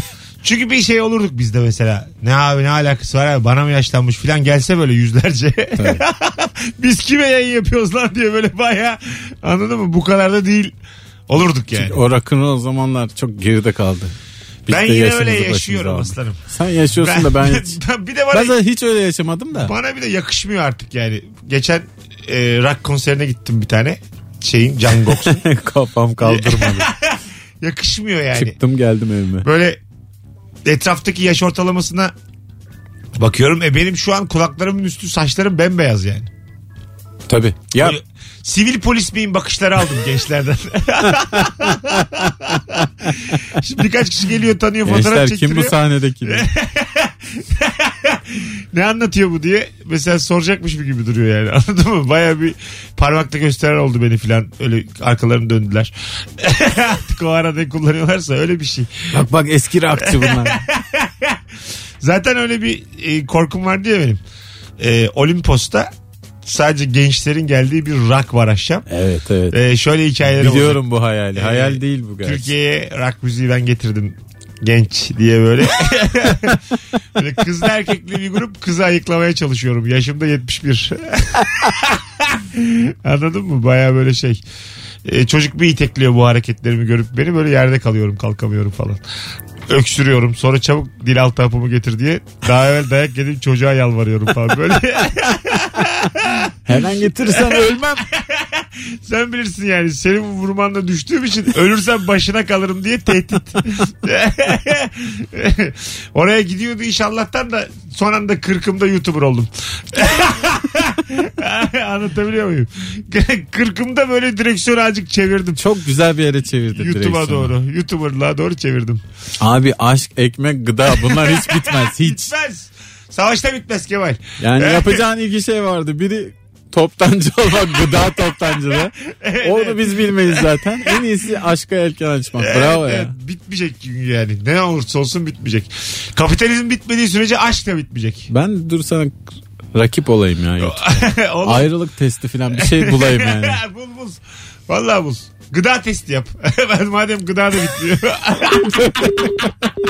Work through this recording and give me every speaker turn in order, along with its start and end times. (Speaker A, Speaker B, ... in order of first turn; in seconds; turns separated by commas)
Speaker A: 0.4-10.7, Speaker B: 5.8-6.0, Speaker A: 11.3-12.0, Speaker B: 11.7-14.1, Speaker B: 14.7-17.8, Speaker A: 14.7-16.4, Speaker A: 17.0-18.6, Speaker B: 18.3-19.7, Speaker A: 19.5-25.4, Speaker B: 25.1-26.9, Speaker A: 26.2-28.6, Speaker B: 28.3-29.4, Speaker A: 29.4-29.8, Speaker A: 30.6-32.1, Speaker A: 33.2-36.3, Speaker B: 37.3-38.0, Speaker A: 37.8-59.0, Speaker B: 41.2-42.0, Speaker B: 44.9-46.5, Speaker B: 59.1-60.6, Speaker A: 60.0-61.4, Speaker A: 62.0-64.2, Speaker A: 64.8-65.9, Speaker A: 66.4-68.8, Speaker B: 68.9-69.6, Speaker A: 69.5-70.8, Speaker B: 70.3-72.5, Speaker A: 71.3-76.6, Speaker A: 77.2-84.4, Speaker A: 85.0-89.0, Speaker A: 89.7-96.5, Speaker B: 96.7-98.0, Speaker A: 97.2-115.6, Speaker B: 115.6-117.5, Speaker A: 116.7-119.0, Speaker B: 119.4-122.3, Speaker A: 120.9-125.0, Speaker B: 124.4-133.1, Speaker A: 129.0-131.0, Speaker A: 132.4-138.3, Speaker B: 138.3-139.2, Speaker B: 139.7-143.6, Speaker A: 140.6-141.7, Speaker A: 142.5-149.3, Speaker B: 148.5-149.7